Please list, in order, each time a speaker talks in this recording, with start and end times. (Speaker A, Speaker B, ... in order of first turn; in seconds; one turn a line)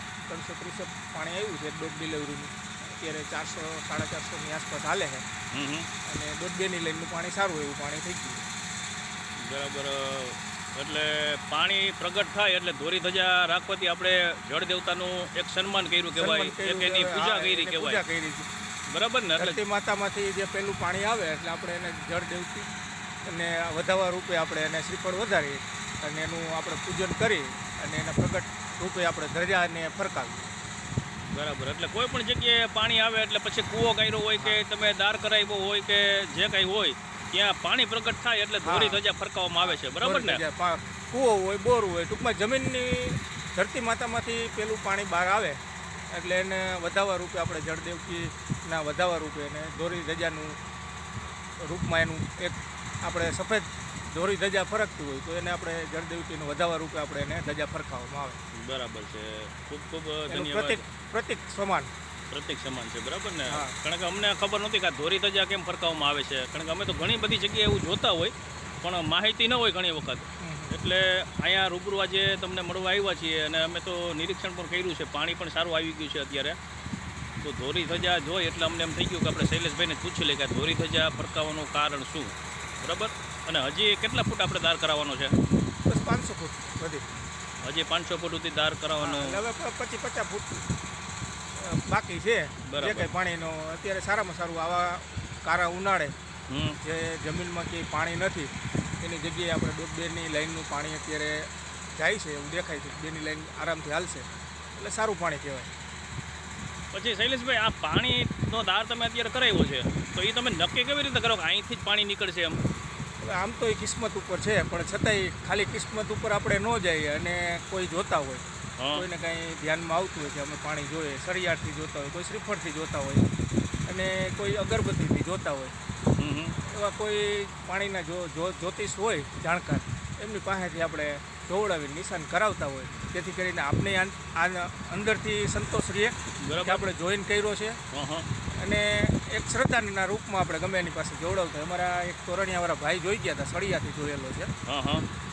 Speaker A: 0.3-5.2
Speaker B: 5.5-5.9
Speaker A: 6.1-8.4
Speaker B: 9.4-18.0
Speaker A: 16.2-18.5
Speaker B: 18.9-19.6
Speaker A: 19.4-22.7
Speaker A: 23.3-30.5
Speaker B: 31.3-40.4
Speaker A: 38.6-39.0
Speaker A: 39.6-50.6
Speaker A: 51.6-58.4
Speaker B: 58.6-60.8
Speaker A: 60.3-61.9
Speaker B: 62.3-76.6
Speaker A: 63.5-63.8
Speaker A: 70.4-70.7
Speaker B: 77.4-85.4
Speaker A: 85.9-87.0
Speaker B: 87.6-89.4
Speaker A: 89.0-90.7
Speaker A: 91.6-96.2
Speaker B: 92.7-93.1
Speaker B: 96.5-96.8
Speaker A: 96.8-105.7
Speaker B: 106.9-112.6
Speaker A: 113.2-123.3
Speaker B: 118.8-119.0
Speaker A: 123.9-125.8
Speaker B: 126.2-126.6
Speaker A: 126.6-137.8
Speaker B: 136.4-136.8
Speaker B: 137.9-138.3
Speaker A: 138.6-144.5
Speaker B: 144.7-145.1